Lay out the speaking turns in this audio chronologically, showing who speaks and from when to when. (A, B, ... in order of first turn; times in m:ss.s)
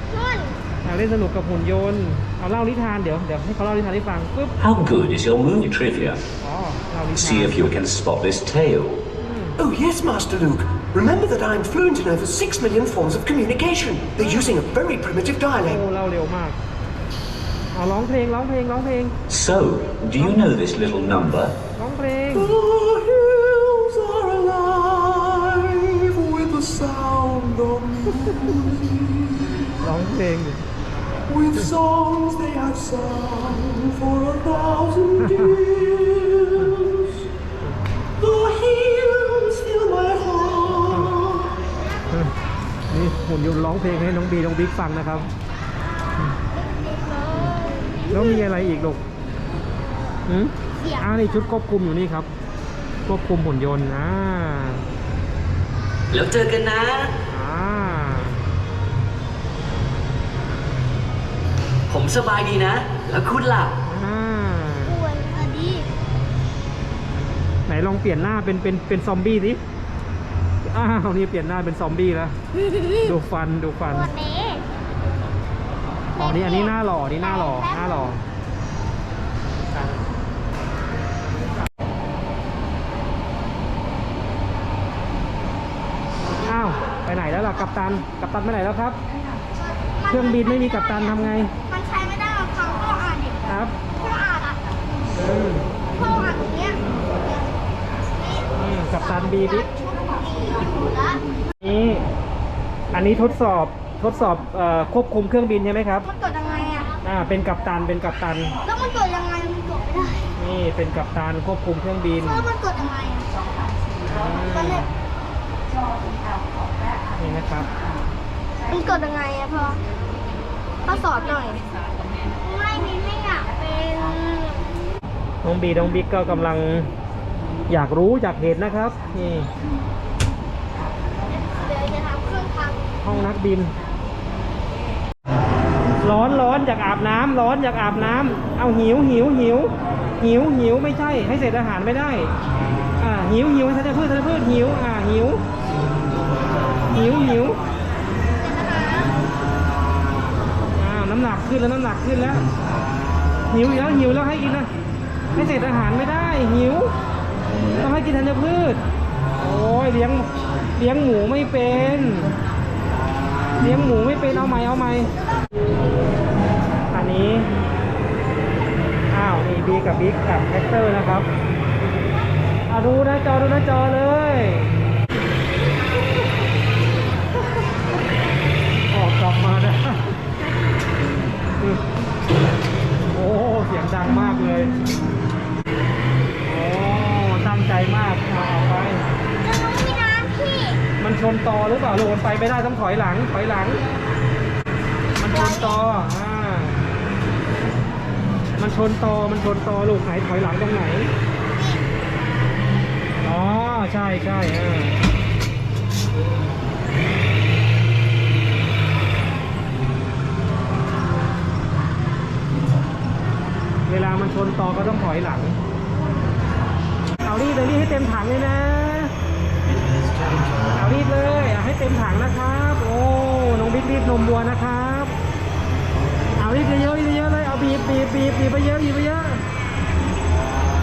0:00.1-0:00.6 A
0:00.8-0:04.5 B
0:04.6-0:06.2 C
0:06.4-0:07.7 B
0:07.1-0:09.0 C
0:09.2-0:09.6 B
0:09.6-0:15.8 D
0:14.2-0:14.6 B
0:15.6-0:16.6 B
0:17.7-0:19.1 B
0:19.3-0:21.5 C
0:21.8-0:22.6 B
0:22.3-0:29.8 D
0:28.2-0:28.5 B
0:29.8-0:30.6 B
0:31.3-0:37.2 D
0:35.3-0:35.6 B
0:38.2-0:41.5 D
0:40.9-0:41.2 B
0:42.9-0:45.3 B
0:46.5-0:48.6 A
0:48.1-0:49.0 B
0:50.3-0:52.3 B
0:50.8-0:51.5 A
0:53.0-0:54.8 B
0:56.1-0:57.1 E
0:57.3-0:58.4 B
1:01.9-1:03.7 E
1:03.8-1:05.0 B
1:04.8-1:05.9 A
1:07.7-1:09.6 B
1:10.6-1:12.3 B
1:12.9-1:14.1 B
1:13.9-1:14.6 A
1:16.1-1:18.2 A
1:16.2-1:18.2 B
1:26.4-1:29.0 B
1:29.7-1:34.6 A
1:30.1-1:31.5 B
1:33.4-1:33.8 B
1:35.1-1:35.7 B
1:35.9-1:37.6 A
1:38.1-1:38.7 A
1:38.6-1:39.7 B
1:39.4-1:41.2 A
1:41.6-1:42.0 B
1:42.9-1:46.1 B
1:46.0-1:47.0 A
1:47.0-1:48.5 B
1:48.6-1:50.3 A
1:50.4-1:52.5 B
1:52.4-1:53.3 A
1:54.0-1:54.9 B
1:57.2-1:57.7 B
1:58.7-1:59.8 A
2:00.8-2:01.7 A
2:02.4-2:04.7 A
2:05.4-2:06.9 B
2:07.7-2:09.5 B
2:11.3-2:12.9 A
2:13.0-2:13.7 B
2:16.0-2:22.3 B
2:23.0-2:25.4 B
2:26.9-2:27.6 B
2:26.9-2:27.5 A
2:28.3-2:29.2 A
2:30.7-2:32.4 B
2:33.5-2:34.7 B
2:35.3-2:36.9 B
2:37.8-2:38.8 B
2:39.4-2:42.4 B
2:43.6-2:45.1 B
2:46.9-2:47.5 B
2:49.1-2:51.3 B
2:52.7-2:54.8 B
2:58.9-3:00.1 B
3:03.0-3:04.7 B
3:06.4-3:09.1 B
3:09.4-3:10.8 A
3:11.0-3:13.8 B
3:15.2-3:16.8 B
3:15.3-3:15.8 A
3:18.5-3:21.1 B
3:21.5-3:22.0 A
3:23.2-3:25.0 B
3:33.9-3:35.6 B
3:37.2-3:39.1 B
3:40.6-3:45.1 B
3:46.4-3:49.4 B